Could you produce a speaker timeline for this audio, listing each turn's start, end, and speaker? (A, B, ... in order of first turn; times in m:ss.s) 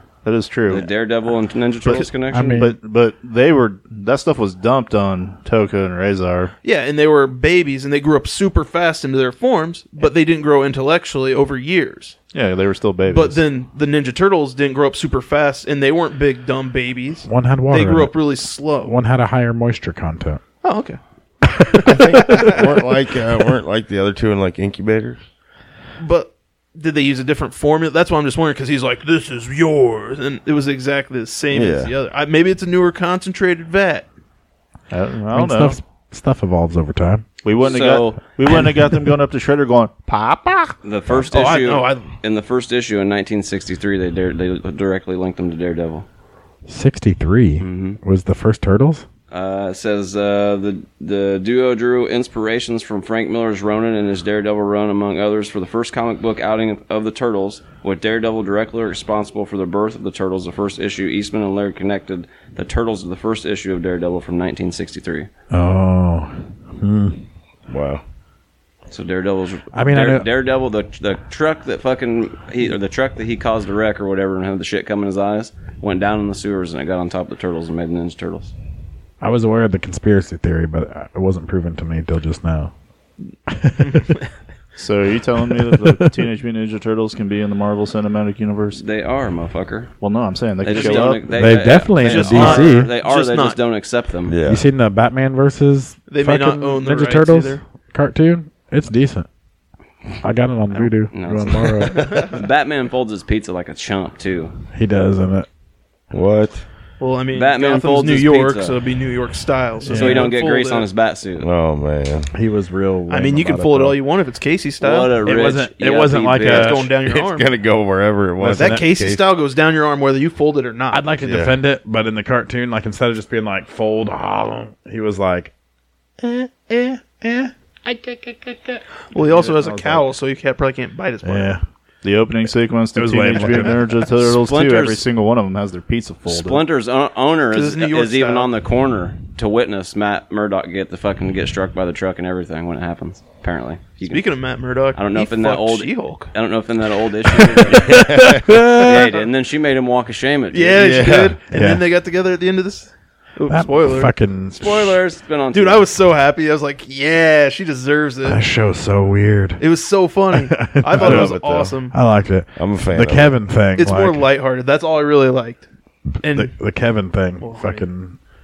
0:00.2-0:00.9 A
0:00.7-0:02.6 B
0:01.8-0:06.5 A
0:02.3-0:02.8 C
0:06.6-0:12.2 D
0:12.3-0:13.4 A
0:13.1-0:18.9 D
0:17.3-0:18.2 C
0:18.8-0:20.4 C
0:20.6-0:21.0 D
0:21.6-0:22.8 D
0:21.8-0:25.2 E
0:26.0-0:34.1 D
0:31.5-0:31.9 E
0:34.9-0:35.8 A
0:35.3-0:37.2 C
0:37.4-0:40.8 A
0:37.6-0:38.4 B
0:40.8-0:46.0 B
0:41.2-0:42.1 D
0:46.7-0:49.0 C
0:47.6-0:48.0 B
0:49.3-1:05.3 B
1:05.5-1:07.2 C
1:07.7-1:08.0 E
1:08.9-1:18.5 B
1:09.7-1:10.3 C
1:19.2-1:22.7 C
1:23.5-1:24.1 C
1:23.8-1:24.2 D
1:24.8-1:28.8 A
1:25.5-1:26.1 C
1:28.7-1:29.9 B
1:30.0-1:31.2 A
1:30.6-1:34.3 B
1:30.7-1:31.1 D
1:31.3-1:32.9 C
1:31.9-1:33.6 D
1:34.2-1:34.7 E
1:34.4-1:39.3 C
1:36.1-1:37.6 D
1:40.2-1:42.4 C
1:41.1-1:44.5 B
1:42.0-1:42.3 D
1:44.7-1:45.5 C
1:46.1-1:46.6 E
1:47.0-1:50.9 D
1:47.3-1:48.8 B
1:49.8-1:50.3 C
1:49.9-1:51.5 B
1:51.4-1:52.3 E
1:52.3-1:54.0 C
1:53.1-1:55.2 D
1:54.8-1:56.9 B
1:55.2-1:56.9 C
1:56.4-1:57.5 D
1:57.0-1:59.2 E
1:58.4-1:58.9 C
1:58.5-2:01.2 D
2:00.9-2:05.5 C
2:01.2-2:01.6 E
2:06.2-2:10.1 C
2:09.1-2:11.5 D
2:11.2-2:11.6 C
2:12.0-2:16.6 A
2:12.9-2:14.1 C
2:14.2-2:15.0 B
2:16.3-2:24.3 B
2:17.5-2:18.5 D
2:24.0-2:26.3 D
2:24.9-2:28.1 B
2:27.3-2:29.1 D
2:27.9-2:28.4 E
2:28.4-2:28.8 C
2:28.7-2:31.1 B
2:30.5-2:34.1 D
2:30.8-2:31.4 E
2:31.5-2:31.8 C
2:33.5-2:35.0 C
2:34.5-2:35.9 B
2:35.5-2:38.4 D
2:38.2-2:39.6 C
2:39.6-2:41.9 D
2:40.3-2:44.2 C
2:40.9-2:41.8 E
2:42.5-2:43.3 E
2:43.8-2:45.7 D
2:46.2-2:46.5 D
2:46.3-2:48.2 C
2:47.4-2:47.8 D